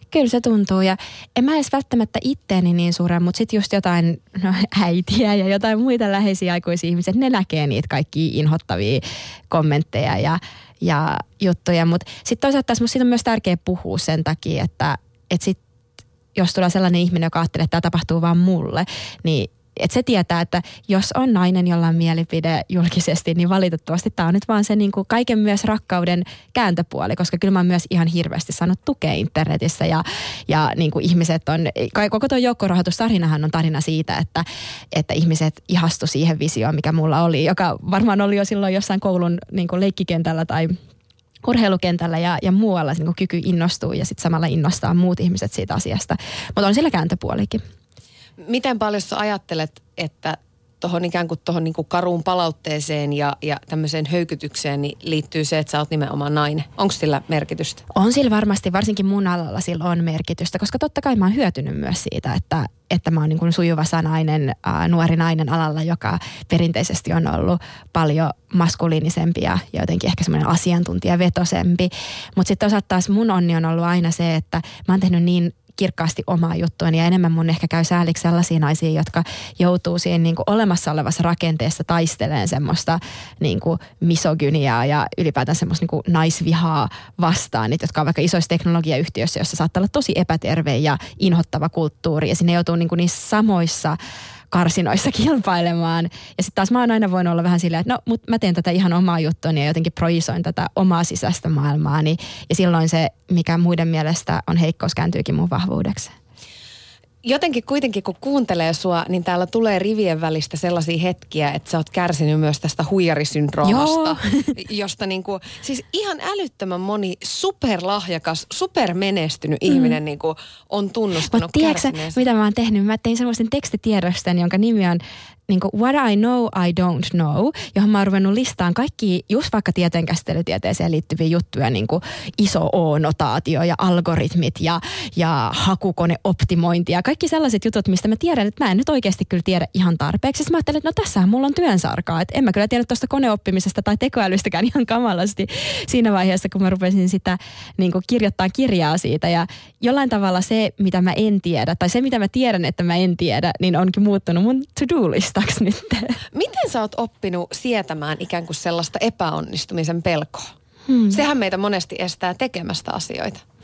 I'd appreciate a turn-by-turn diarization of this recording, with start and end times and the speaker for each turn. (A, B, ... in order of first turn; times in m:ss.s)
0:00.1-0:15.6 A
0:16.4-0:40.8 A
0:41.4-0:47.6 A
0:48.4-0:57.8 B
0:57.9-1:34.0 A
1:34.5-1:46.1 A
1:47.2-2:02.2 B
1:53.6-1:54.6 A
1:59.7-2:00.0 A
2:01.3-2:36.2 A
2:36.3-2:40.5 B
2:40.9-2:41.2 A
2:41.1-2:43.4 B